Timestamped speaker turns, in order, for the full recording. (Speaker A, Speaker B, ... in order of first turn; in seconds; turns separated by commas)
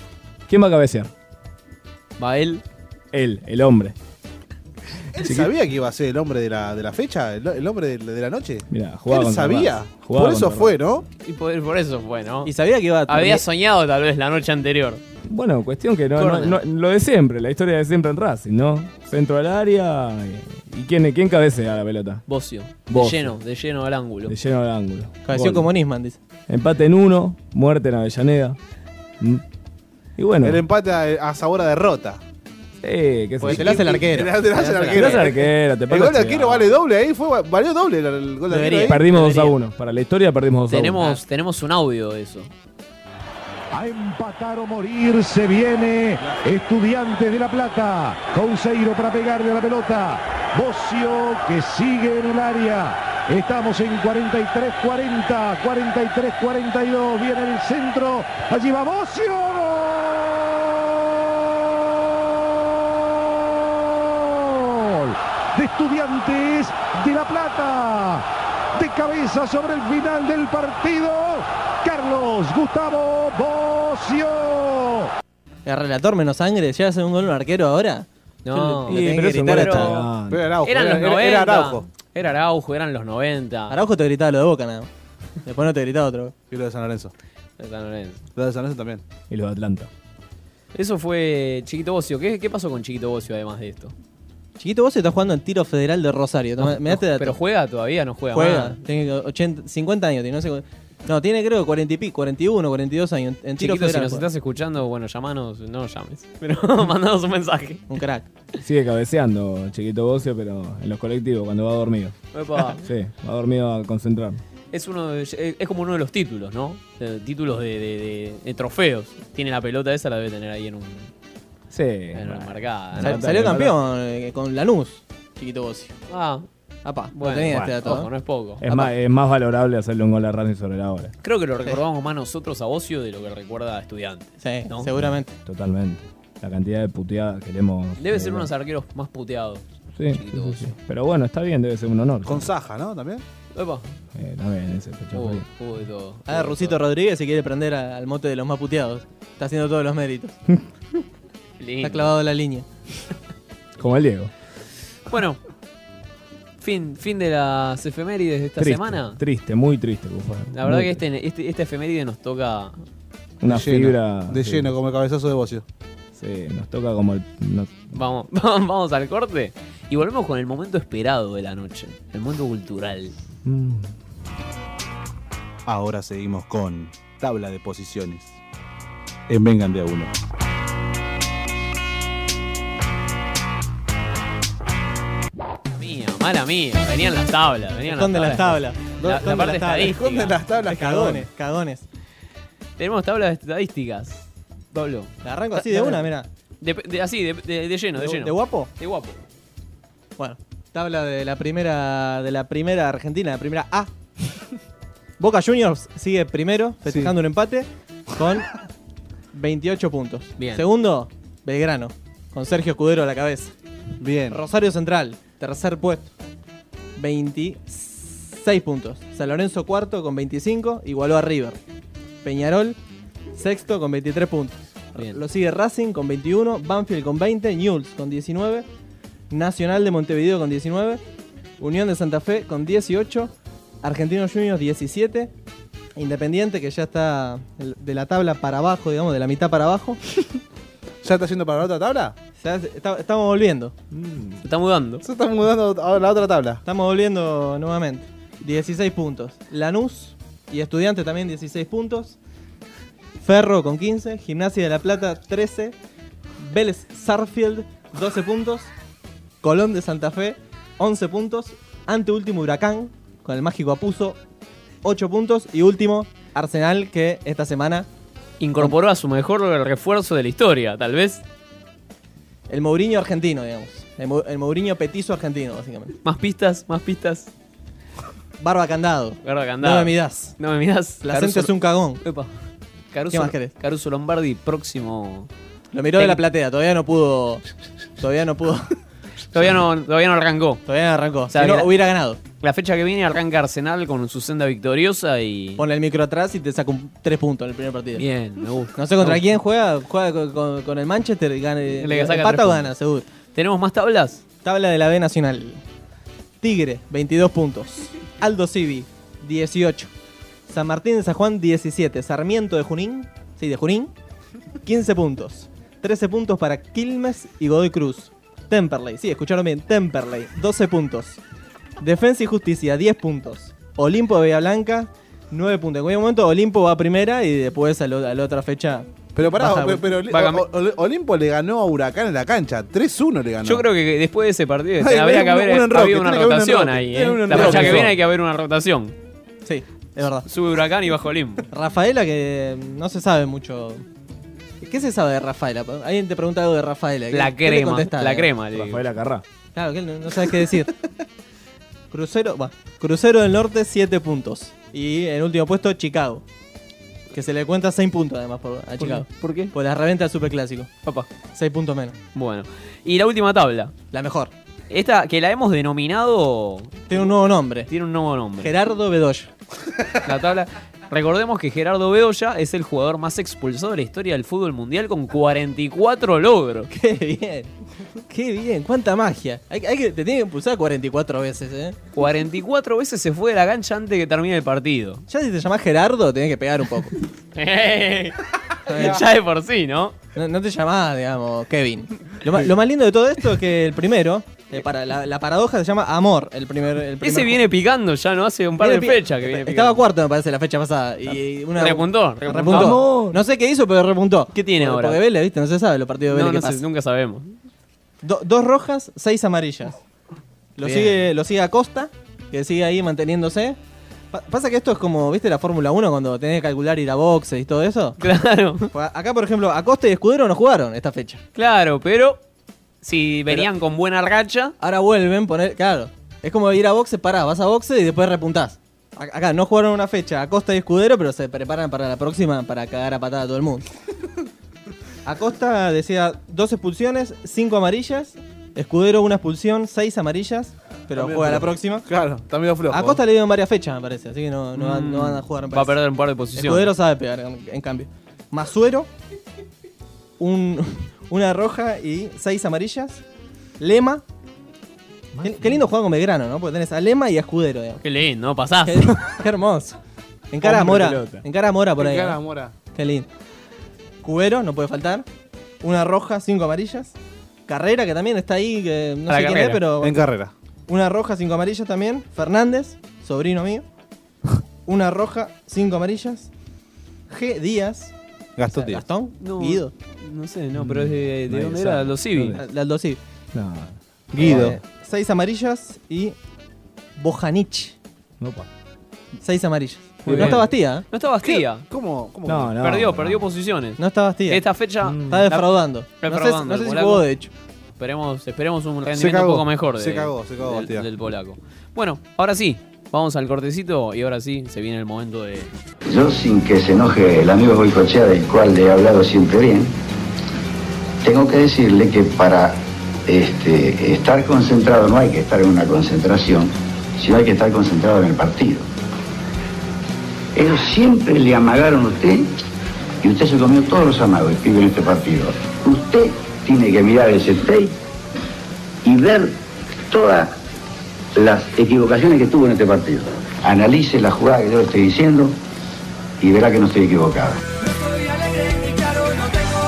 Speaker A: 0.5-1.1, Speaker B: 2.2-2.6, Speaker A: 3.1-3.9, Speaker C: 5.1-11.0, Speaker A: 5.2-5.5, Speaker A: 8.7-10.8, Speaker B: 11.2-12.5, Speaker D: 12.4-13.4, Speaker B: 13.1-15.0, Speaker A: 15.3-22.2, Speaker B: 16.1-16.6, Speaker B: 22.3-24.3, Speaker A: 22.9-23.3, Speaker A: 24.2-25.7, Speaker D: 25.2-26.2, Speaker A: 26.5-28.6, Speaker A: 30.2-30.6, Speaker C: 30.4-32.2, Speaker A: 32.8-33.9, Speaker C: 33.4-39.0, Speaker D: 33.4-35.2, Speaker A: 34.9-36.7, Speaker D: 38.5-39.5, Speaker A: 38.9-41.2, Speaker B: 40.7-42.5, Speaker E: 43.7-60.5, Speaker C: 46.2-46.5, Speaker E: 64.0-75.1, Speaker D: 75.6-80.0, Speaker B: 78.4-80.1, Speaker A: 78.9-80.5, Speaker C: 80.3-81.8, Speaker B: 80.6-83.8, Speaker D: 83.7-84.9, Speaker D: 85.4-86.3, Speaker C: 86.5-87.1, Speaker B: 87.6-88.2, Speaker C: 88.3-89.0, Speaker A: 89.3-89.9, Speaker B: 90.7-93.9, Speaker D: 94.6-97.3, Speaker B: 96.6-98.8, Speaker D: 98.3-104.2, Speaker B: 103.6-107.8, Speaker D: 107.9-108.3, Speaker A: 108.6-112.1, Speaker B: 112.3-112.8, Speaker A: 112.7-114.4, Speaker B: 114.7-121.1, Speaker A: 121.7-123.7, Speaker B: 122.1-123.3, Speaker D: 123.0-125.9, Speaker B: 126.1-126.5, Speaker D: 126.8-128.1, Speaker B: 127.2-128.7, Speaker A: 128.6-131.1, Speaker B: 131.2-134.9, Speaker D: 134.4-135.3, Speaker A: 135.4-138.5, Speaker B: 138.0-140.7, Speaker A: 139.9-142.5, Speaker C: 142.2-143.2, Speaker B: 143.5-143.9, Speaker A: 144.2-145.4, Speaker B: 145.1-146.8, Speaker D: 146.3-150.4, Speaker B: 151.6-152.1, Speaker D: 151.8-152.7, Speaker A: 153.8-154.3, Speaker B: 155.1-155.4, Speaker B: 156.6-159.2, Speaker A: 158.6-161.0, Speaker B: 160.5-162.8, Speaker A: 163.4-164.7, Speaker C: 163.5-165.6, Speaker A: 166.2-167.8, Speaker B: 167.9-173.1, Speaker A: 173.4-173.9, Speaker C: 175.7-178.4, Speaker C: 179.3-180.1, Speaker B: 185.7-190.4, Speaker D: 187.9-190.0, Speaker C: 189.2-191.3, Speaker D: 190.7-191.8, Speaker B: 192.8-196.1, Speaker D: 195.2-196.3, Speaker B: 196.6-199.2, Speaker D: 197.9-198.7, Speaker D: 200.2-203.9, Speaker D: 205.2-208.5, Speaker C: 206.9-207.1, Speaker D: 209.3-213.5, Speaker B: 210.4-210.6, Speaker C: 214.0-214.4, Speaker D: 214.3-216.1, Speaker D: 216.9-221.6, Speaker D: 222.2-222.8, Speaker D: 223.3-228.7, Speaker B: 224.9-225.2, Speaker D: 229.3-231.0, Speaker D: 231.6-235.3, Speaker D: 235.9-240.0, Speaker C: 241.0-242.1, Speaker D: 242.4-243.7, Speaker A: 243.9-244.4, Speaker B: 244.4-245.0, Speaker C: 245.0-246.6, Speaker D: 246.6-252.2, Speaker D: 253.2-255.7, Speaker D: 256.4-258.7, Speaker D: 259.4-264.2, Speaker D: 264.8-267.9, Speaker B: 268.4-271.2, Speaker D: 272.5-275.9, Speaker B: 276.0-277.3, Speaker D: 278.4-280.3, Speaker B: 279.2-282.3, Speaker D: 281.0-282.0, Speaker B: 282.9-285.3, Speaker D: 283.1-283.5, Speaker D: 285.7-287.4, Speaker B: 286.0-286.2, Speaker D: 288.0-288.7, Speaker B: 289.3-290.6, Speaker D: 290.6-292.2, Speaker B: 291.3-291.7, Speaker B: 292.4-295.6, Speaker D: 295.6-298.0, Speaker B: 297.9-299.2, Speaker D: 298.7-303.1, Speaker B: 301.8-302.7, Speaker B: 303.3-304.2, Speaker D: 304.4-305.6, Speaker D: 306.4-309.9, Speaker D: 310.5-313.9, Speaker D: 314.6-321.2, Speaker D: 321.8-329.9, Speaker C: 329.1-333.7, Speaker B: 330.1-330.4, Speaker B: 333.4-338.9, Speaker C: 334.8-337.9, Speaker D: 337.3-337.8, Speaker D: 339.4-340.2, Speaker B: 340.2-341.5, Speaker D: 341.5-343.8, Speaker D: 344.6-348.3, Speaker B: 347.1-348.8, Speaker A: 348.5-349.2, Speaker D: 349.5-350.7, Speaker D: 351.9-356.2, Speaker D: 357.1-360.7, Speaker B: 358.8-359.5, Speaker D: 361.3-361.9, Speaker B: 362.1-363.7, Speaker D: 363.9-364.3, Speaker B: 364.7-367.1, Speaker D: 366.9-367.7, Speaker B: 367.7-368.5, Speaker D: 368.4-369.3, Speaker B: 370.0-376.7, Speaker D: 376.7-377.5, Speaker D: 378.1-381.8, Speaker B: 381.9-385.0, Speaker D: 385.1-386.9, Speaker B: 387.3-389.9, Speaker D: 388.7-389.0, Speaker D: 390.1-397.4, Speaker B: 397.0-399.8, Speaker D: 398.6-406.6, Speaker B: 401.6-402.8, Speaker A: 402.4-403.2, Speaker B: 404.3-405.0, Speaker B: 406.1-407.4, Speaker D: 408.0-409.8, Speaker D: 410.6-413.6, Speaker B: 410.6-411.1, Speaker D: 414.1-418.0, Speaker B: 418.0-418.7, Speaker D: 418.7-421.2, Speaker B: 421.3-422.2, Speaker B: 422.8-424.5, Speaker D: 424.6-433.6, Speaker D: 435.0-441.9, Speaker C: 440.9-443.0, Speaker D: 442.7-445.8, Speaker B: 444.5-446.7, Speaker D: 446.4-448.9, Speaker D: 450.2-453.0, Speaker D: 453.6-454.0, Speaker A: 455.1-455.6, Speaker D: 455.2-457.8, Speaker B: 457.8-458.9, Speaker D: 458.6-459.8, Speaker D: 460.3-462.2, Speaker A: 460.4-461.2, Speaker C: 461.8-462.5, Speaker D: 462.7-463.1, Speaker D: 464.0-465.1, Speaker D: 465.6-466.9, Speaker D: 467.5-470.1, Speaker B: 469.1-469.6, Speaker C: 469.8-470.3, Speaker D: 470.7-473.6, Speaker D: 474.6-476.3, Speaker D: 477.1-477.9, Speaker C: 478.4-478.8, Speaker D: 478.5-479.7, Speaker B: 479.2-482.4, Speaker A: 480.6-482.4, Speaker D: 482.3-483.0, Speaker A: 483.3-484.6, Speaker C: 484.1-484.6, Speaker D: 484.2-486.1, Speaker D: 487.0-487.8, Speaker A: 488.2-488.5, Speaker D: 489.2-490.9, Speaker B: 490.0-491.6, Speaker A: 490.1-490.5, Speaker C: 491.2-492.6, Speaker A: 492.2-493.3, Speaker B: 492.6-495.5, Speaker D: 493.8-494.4, Speaker A: 494.8-495.3, Speaker D: 495.1-497.3, Speaker B: 496.0-497.1, Speaker B: 497.8-505.5, Speaker C: 498.9-500.9, Speaker F: 505.9-509.7, Speaker F: 511.0-518.6, Speaker F: 520.3-522.3, Speaker F: 523.0-527.7, Speaker F: 528.8-529.4, Speaker F: 529.9-530.3, Speaker F: 531.1-535.4, Speaker F: 536.2-537.4